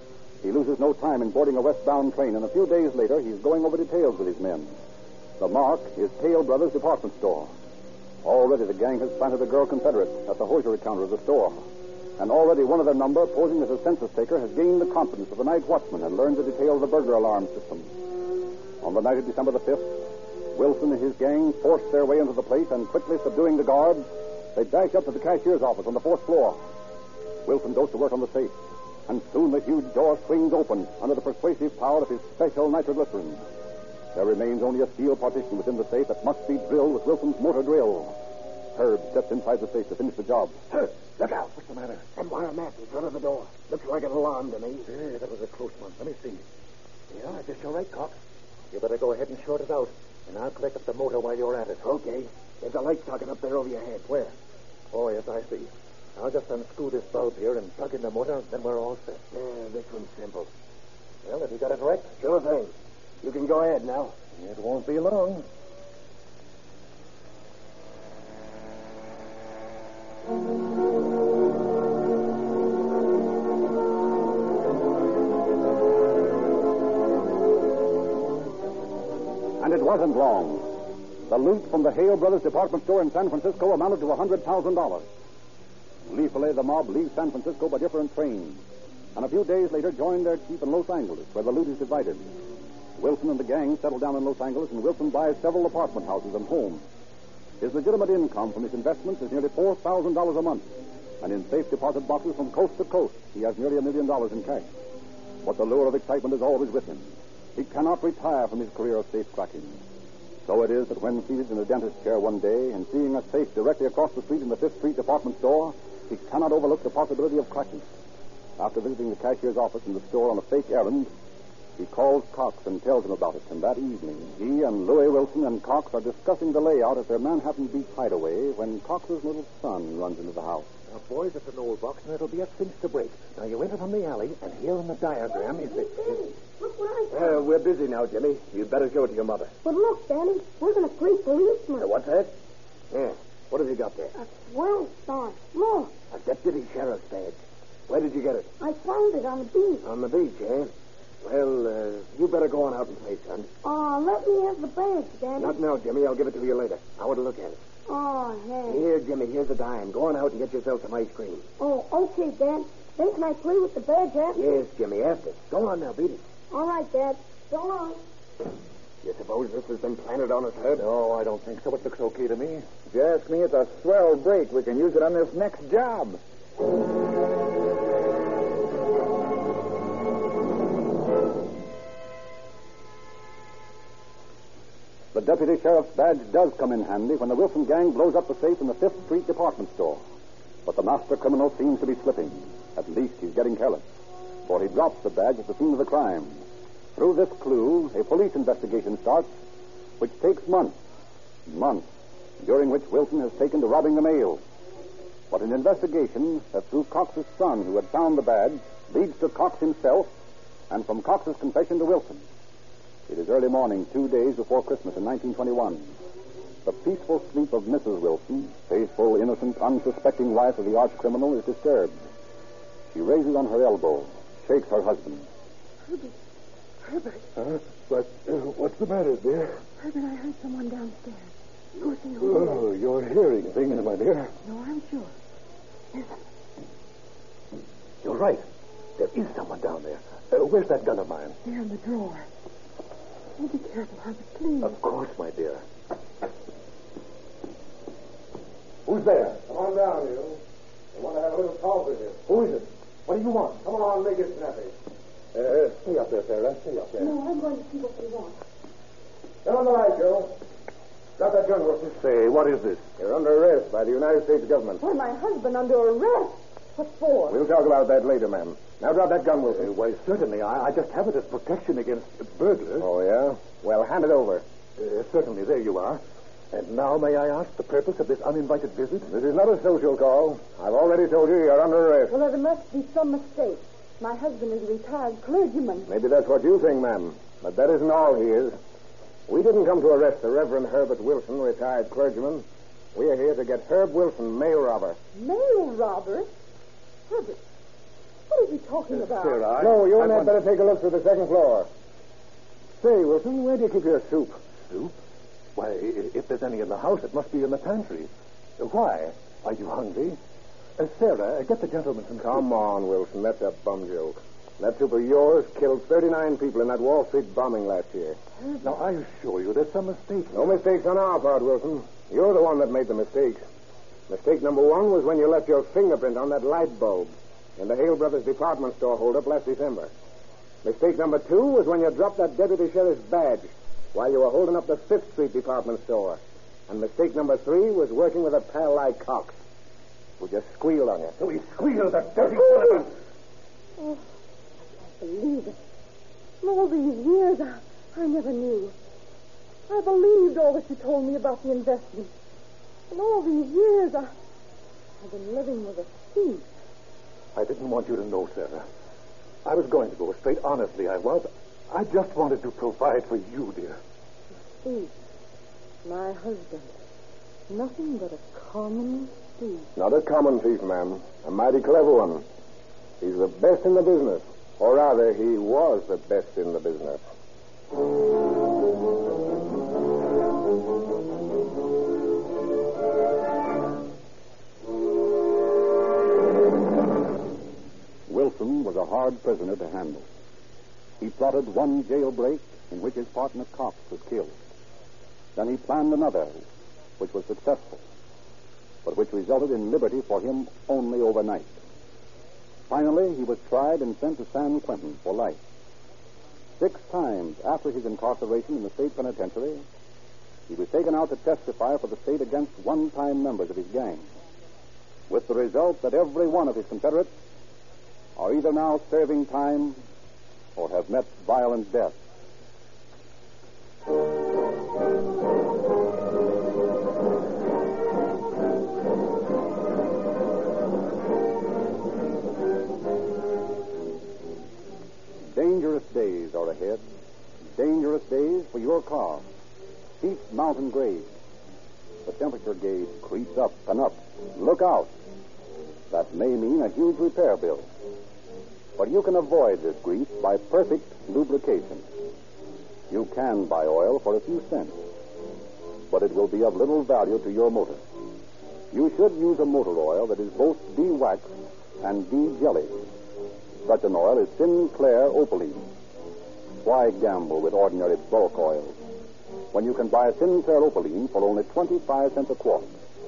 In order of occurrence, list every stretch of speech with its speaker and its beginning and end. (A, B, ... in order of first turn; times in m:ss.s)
0:00.4-0:04.7 A
0:05.4-0:07.5 A
0:08.2-0:11.6 A
0:12.2-0:17.9 A
0:18.8-0:26.6 A
0:27.4-0:28.5 A
0:29.1-0:33.4 A
0:34.1-0:38.2 A
0:38.7-0:40.6 A
0:40.7-0:42.0 B
0:42.2-0:44.9 C
0:44.9-0:46.4 B
0:47.1-0:48.2 B
0:48.7-0:51.9 B
0:51.8-0:54.3 C
0:54.9-0:59.2 B
0:59.3-1:00.5 C
1:01.2-1:02.2 B
1:02.2-1:04.1 C
1:04.4-1:05.4 B
1:19.6-1:25.0 A
1:26.1-1:28.6 A
1:29.1-1:32.4 A
1:33.0-1:36.8 A
1:37.6-1:40.7 A
1:41.2-1:44.7 A
1:45.4-1:49.8 A
1:50.4-1:57.8 A
1:58.6-2:01.1 A
2:01.8-2:10.7 A
2:10.9-2:16.1 B
2:15.3-2:17.4 D
2:17.1-2:19.5 C
2:19.6-2:21.9 D
2:21.8-2:22.3 C
2:22.9-2:24.1 C
2:24.2-2:25.9 D
2:26.1-2:28.5 C
2:28.6-2:29.8 D
2:29.8-2:33.5 C
2:33.6-2:35.6 D
2:35.4-2:37.6 C
2:37.8-2:38.8 D
2:38.7-2:41.5 C
2:41.6-2:44.4 D
2:44.3-2:46.2 C
2:46.5-2:48.0 D
2:49.0-2:50.8 C
2:50.7-2:52.6 B
2:52.9-2:56.2 E
3:05.1-3:10.0 A
3:10.6-3:13.8 A
3:14.5-3:16.4 A
3:16.9-3:19.4 A
3:20.0-3:20.8 A
3:21.5-3:21.9 A
3:22.4-3:24.4 A
3:25.3-3:30.1 A
3:30.7-3:32.2 A
3:33.1-3:35.9 A
3:36.6-3:42.0 A
3:42.9-3:45.3 A
3:45.8-3:46.1 F
3:46.8-3:47.2 F
3:47.4-3:49.6 B
3:49.8-3:52.6 F
3:52.2-3:54.3 B
3:54.4-3:55.1 F
3:55.9-3:56.2 F
3:58.0-3:58.4 B
3:59.0-4:01.4 B
4:01.4-4:02.3 F
4:03.4-4:04.8 F
4:04.6-4:05.6 B
4:08.8-4:09.4 B
4:09.3-4:10.4 C
4:10.9-4:12.3 C
4:12.3-4:13.6 B
4:13.6-4:14.7 C
4:15.4-4:17.2 B
4:17.0-4:18.4 F
4:19.4-4:20.4 C
4:21.2-4:21.9 C
4:21.8-4:22.8 B
4:23.0-4:24.8 C
4:24.8-4:27.4 F
4:27.3-4:29.7 C
4:29.5-4:32.9 B
4:32.8-4:34.4 C
4:34.8-4:36.0 B
4:36.5-4:39.1 B
4:39.1-4:42.2 C
4:42.1-4:45.9 F
4:45.9-4:48.6 C
4:49.3-4:55.0 C
4:55.1-4:56.3 F
4:57.1-4:57.4 F
4:58.3-4:59.5 F
4:58.9-5:00.4 B
4:59.6-5:01.7 C
5:02.8-5:04.4 C
5:05.6-5:10.2 B
5:10.8-5:12.4 B
5:12.2-5:18.2 C
5:18.6-5:20.6 B
5:20.3-5:23.4 C
5:24.1-5:29.9 C
5:30.6-5:39.4 C
5:40.2-5:41.2 C
5:41.2-5:42.9 B
5:43.8-5:44.0 F
5:44.8-5:45.6 F
5:46.4-5:48.8 F
5:49.7-5:52.1 F
5:52.9-5:54.1 F
5:55.0-5:56.5 F
5:57.3-5:58.6 B
5:59.4-6:03.8 B
6:04.6-6:04.9 F
6:05.8-6:06.7 F
6:07.5-6:09.7 F
6:09.8-6:12.2 C
6:13.0-6:17.0 C
6:28.1-6:30.0 A
6:31.0-6:34.3 A
6:35.4-6:36.4 A
6:37.0-6:37.8 A
6:38.8-6:41.6 A
6:42.7-6:45.4 A
6:46.6-6:49.6 A
6:50.5-6:54.1 A
6:55.1-6:57.1 A
6:58.2-6:59.8 A
7:00.6-7:02.0 A
7:15.3-7:16.8 A
7:17.6-7:19.2 A
7:20.0-7:21.1 A
7:22.0-7:24.9 A
7:25.9-7:27.7 A
7:28.8-7:31.8 A
7:32.9-7:34.8 A
7:35.9-7:37.8 A
7:38.7-7:42.8 A
7:43.6-7:45.7 A
7:46.6-7:48.8 A
7:49.5-7:52.7 A